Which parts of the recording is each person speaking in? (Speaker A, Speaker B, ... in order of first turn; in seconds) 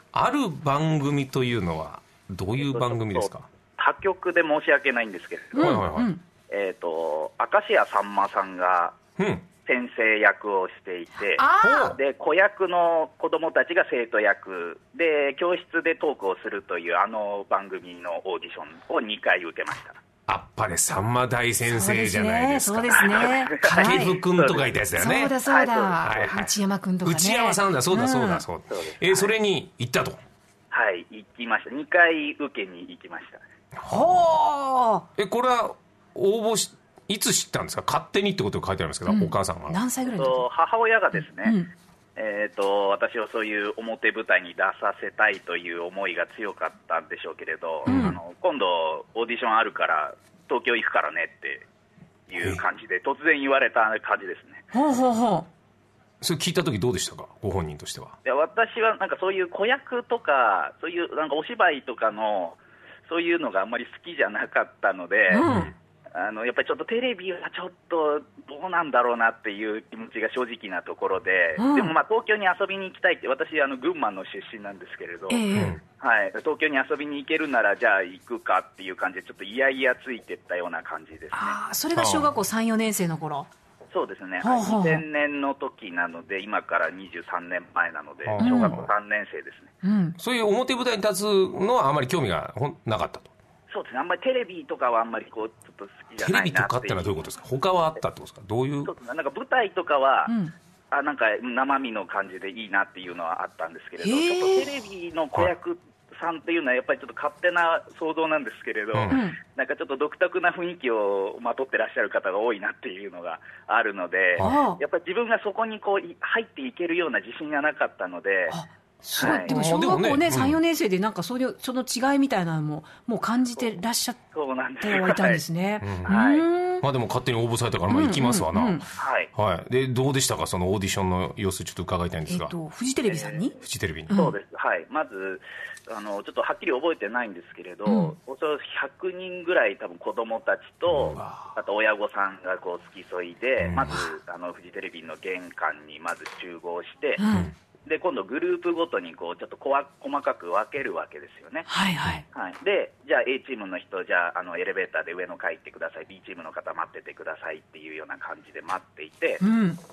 Speaker A: 0.1-3.5, 5.5-6.1, 9.2-9.5, 11.6-12.0, 20.3-25.3, 26.0-26.5, 27.0-30.2, 33.8-34.3, 35.2-39.8, 47.9-48.2, 52.4-52.6, 56.2-58.1, 65.4-65.7, 75.5-75.8, 81.9-82.3, 88.2-88.9, 90.2-93.3, 96.2-98.9, 119.5-120.6, 125.8-126.2, 126.8-132.5, 133.6-134.1, 140.9-141.5, 143.6-144.0, 147.3-147.5
Speaker B: 2.6-5.8, 6.5-9.0, 9.6-20.0, 23.2-24.7, 25.4-26.0, 28.7-29.3, 30.7-33.4, 40.1-41.6, 42.1-51.6, 52.3-54.6, 58.2-65.5, 66.1-75.5, 76.0-81.6, 83.9-89.7, 93.7-97.3, 98.8-100.3, 100.9-118.5, 119.2-119.5, 124.3-125.4, 126.0-126.4, 129.0-129.3, 133.1-133.5, 134.1-147.2, 147.8-151.7, 152.3-159.4
Speaker C: 5.5-6.2, 11.3-12.0, 21.7-24.2, 24.9-28.4, 33.9-35.1, 39.1-40.5, 41.2-41.7, 47.9-48.1, 54.7-55.5, 65.3-65.7, 71.6-71.9, 75.3-75.8, 81.3-83.5, 84.4-85.0, 88.4-88.8, 89.8-90.2, 100.3-100.5, 104.0-104.7, 109.1-109.4, 114.4-114.8, 118.5-124.2, 124.8-126.8, 127.9-128.8, 132.3-133.6, 134.1-134.3, 137.8-138.1, 147.2-147.5, 151.7-152.2, 159.4-159.8